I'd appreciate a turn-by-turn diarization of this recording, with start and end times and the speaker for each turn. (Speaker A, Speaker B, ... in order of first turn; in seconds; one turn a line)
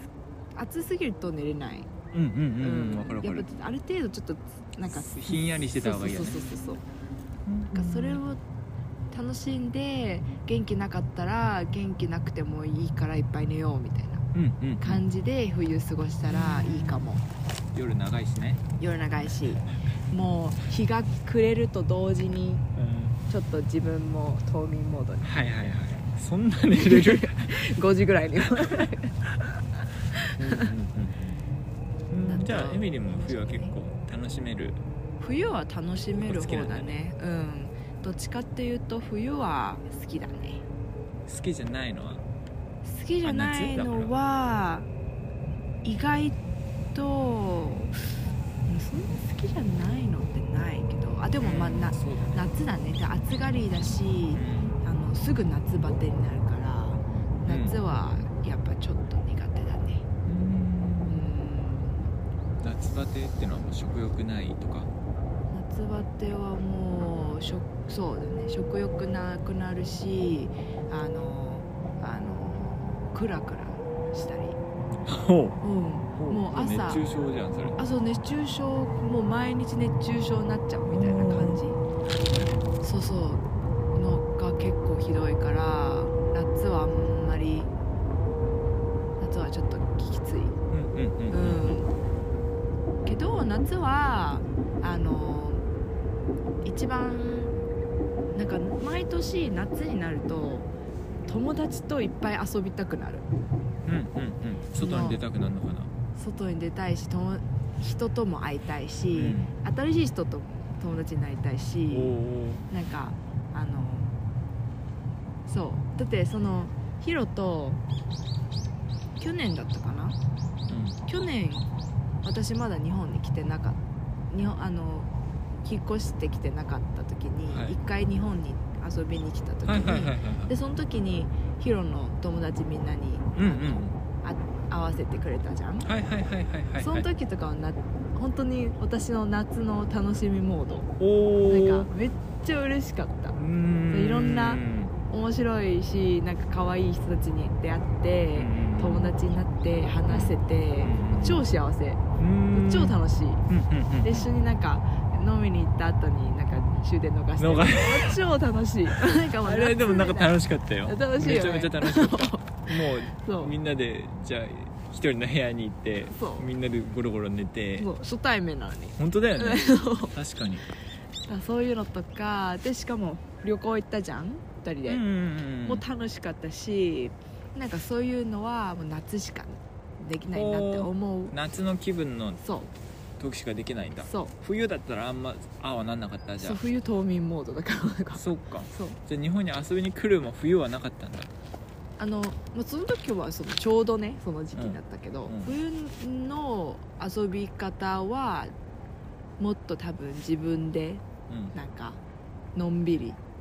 Speaker A: 0.5-1.9
Speaker B: 2.1-3.5
Speaker A: 2.6-6.8
Speaker B: 4.9-6.4
Speaker B: 7.5-8.2
Speaker A: 7.7-8.4
Speaker A: 9.1-14.2
Speaker B: 14.3-15.0
Speaker A: 14.8-17.2
Speaker B: 16.3-17.1
Speaker B: 17.7-18.6
Speaker A: 18.8-22.6
Speaker B: 22.8-23.2
Speaker A: 23.3-25.3
Speaker B: 25.2-27.6
Speaker A: 26.8-29.2
Speaker B: 28.6-28.9
Speaker A: 30.1-30.7
Speaker B: 30.4-31.4
Speaker B: 32.1-34.8
Speaker A: 32.3-33.8
Speaker A: 35.2-40.6
Speaker B: 36.2-36.9
Speaker B: 41.3-42.2
Speaker A: 42.8-44.9
Speaker B: 43.2-44.1
Speaker A: 45.8-46.4
Speaker A: 46.9-48.0
Speaker A: 48.7-60.1
Speaker B: 51.4-52.5
Speaker B: 54.4-54.8
Speaker B: 57.5-57.8
Speaker B: 60.2-61.3
Speaker A: 61.1-62.1
Speaker B: 62.6-64.9
Speaker A: 65.5-74.6
Speaker B: 75.0-75.6
Speaker A: 75.6-77.0
Speaker B: 76.2-77.8
Speaker A: 77.8-81.8
Speaker B: 80.9-81.6
Speaker B: 82.3-82.6
Speaker A: 82.8-87.7
Speaker A: 89.2-90.6
Speaker B: 90.7-91.8
Speaker A: 91.3-91.9
Speaker A: 93.0-95.6
Speaker A: 96.6-97.6
Speaker A: 98.3-100.7
Speaker A: 101.3-103.3
Speaker B: 103.9-105.9
Speaker A: 104.8-105.2
Speaker A: 106.2-112.2
Speaker B: 109.1-109.5
Speaker B: 111.9-112.7
Speaker A: 112.7-114.1
Speaker A: 115.5-117.8
Speaker A: 119.2-120.2
Speaker B: 120.7-121.0
Speaker A: 121.1-121.7
Speaker A: 122.2-123.8
Speaker A: 124.3-125.1
Speaker A: 125.6-135.9
Speaker B: 127.5-127.8
Speaker B: 129.7-130.5
Speaker B: 133.3-134.0
Speaker B: 135.8-137.1
Speaker A: 136.8-140.9
Speaker B: 141.0-141.9
Speaker A: 141.4-143.4
Speaker B: 143.3-144.9
Speaker A: 143.9-153.4
Speaker B: 148.3-149.1
Speaker B: 150.1-151.4
Speaker B: 152.2-153.0
Speaker B: 153.5-154.3
Speaker A: 154.0-163.6
Speaker B: 157.4-158.2
Speaker B: 158.9-167.9
Speaker A: 166.1-166.5
Speaker A: 167.8-170.1
Speaker B: 169.0-170.7
Speaker A: 171.3-175.0
Speaker B: 174.9-175.8
Speaker A: 175.6-181.3
Speaker B: 180.3-182.4
Speaker A: 182.4-182.7
Speaker B: 183.2-186.6
Speaker A: 184.0-184.3
Speaker A: 186.4-189.0
Speaker B: 188.1-191.3
Speaker A: 192.0-198.5
Speaker B: 194.6-195.6
Speaker A: 199.4-202.0
Speaker B: 201.3-201.6
Speaker A: 202.6-203.2